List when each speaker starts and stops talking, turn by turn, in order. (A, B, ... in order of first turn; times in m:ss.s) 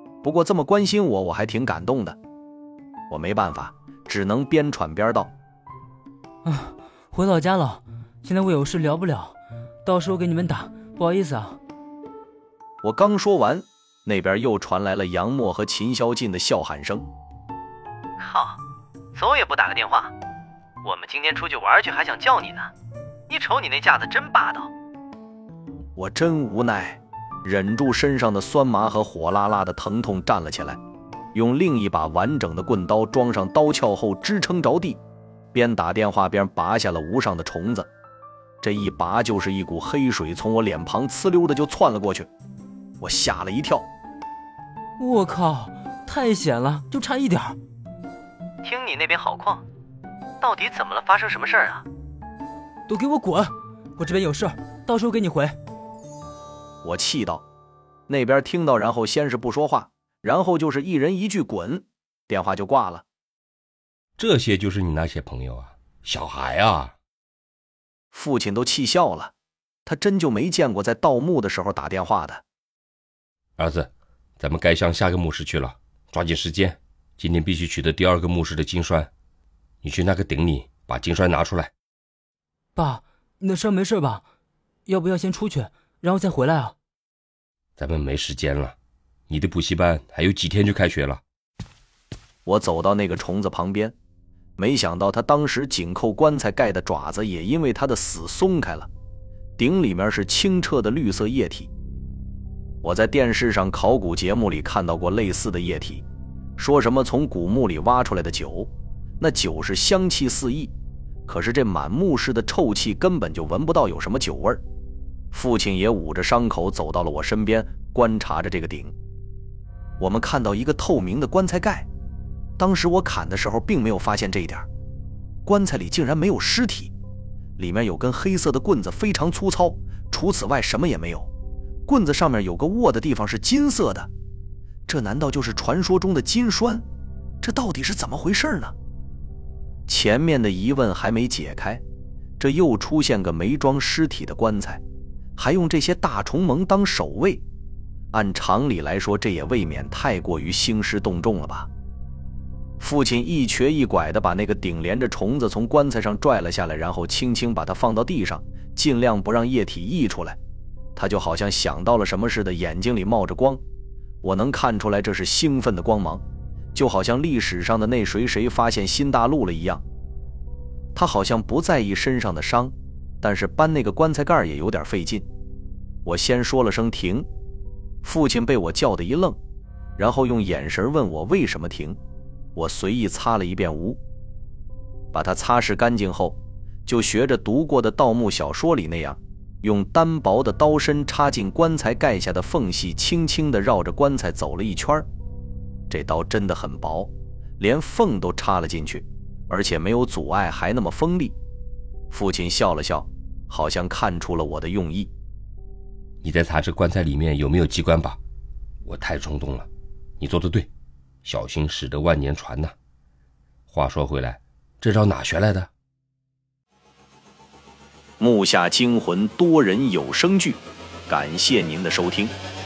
0:00.2-0:02.2 A
0:03.1-0:05.3 A
0:06.4-0:11.6 B
0:12.8-0:17.0 A
0:18.2-0:18.6 C
0:19.1-0:20.1 C
0:20.8-0:22.7 C
0:23.3-0:24.7 C
0:26.0-0:30.8 A
0:31.3-0:35.0 A
0:35.5-0:37.9 A
0:38.6-0:42.3 A
0:43.0-0:43.9 A
0:45.0-0:47.6 B
0:48.6-0:49.6 C
0:50.4-0:51.8 C
0:52.9-0:55.6 B
0:56.8-0:57.4 A
0:58.1-1:03.0 A
1:04.2-1:06.9 D
1:08.1-1:09.3 A
1:09.8-1:12.4 A
1:13.6-1:19.1 D
1:19.8-1:21.7 D
1:22.8-1:24.2 B
1:24.8-1:26.7 B
1:27.8-1:28.7 D
1:29.3-1:31.2 D
1:32.4-1:33.9 A
1:34.6-1:38.9 A
1:39.6-1:41.7 A
1:42.8-1:46.0 A
1:46.6-1:50.7 A
1:51.2-1:54.6 A
1:55.3-1:58.9 A
2:00.0-2:01.9 A
2:02.6-2:04.7 A
2:05.4-2:06.9 A
2:07.6-2:11.3 A
2:11.8-2:14.1 A
2:14.9-2:16.8 A
2:17.4-2:18.7 A
2:19.9-2:21.8 A
2:22.4-2:24.8 A
2:25.4-2:27.4 A
2:28.1-2:31.7 A
2:32.8-2:40.4 A
2:41.0-2:43.6 A
2:44.2-2:46.2 A
2:46.7-2:49.8 A
2:50.9-2:55.2 A
2:56.0-2:57.2 A
2:58.0-2:59.4 A
3:00.0-3:02.0 A
3:02.5-3:04.0 A
3:05.1-3:15.1 A
3:15.9-3:21.4 A
3:22.1-3:25.1 A
3:26.2-3:28.2 D
3:28.8-3:29.7 D
3:30.2-3:30.7 D
3:31.2-3:32.7 D
3:33.7-3:35.7 D
3:38.2-3:42.3 A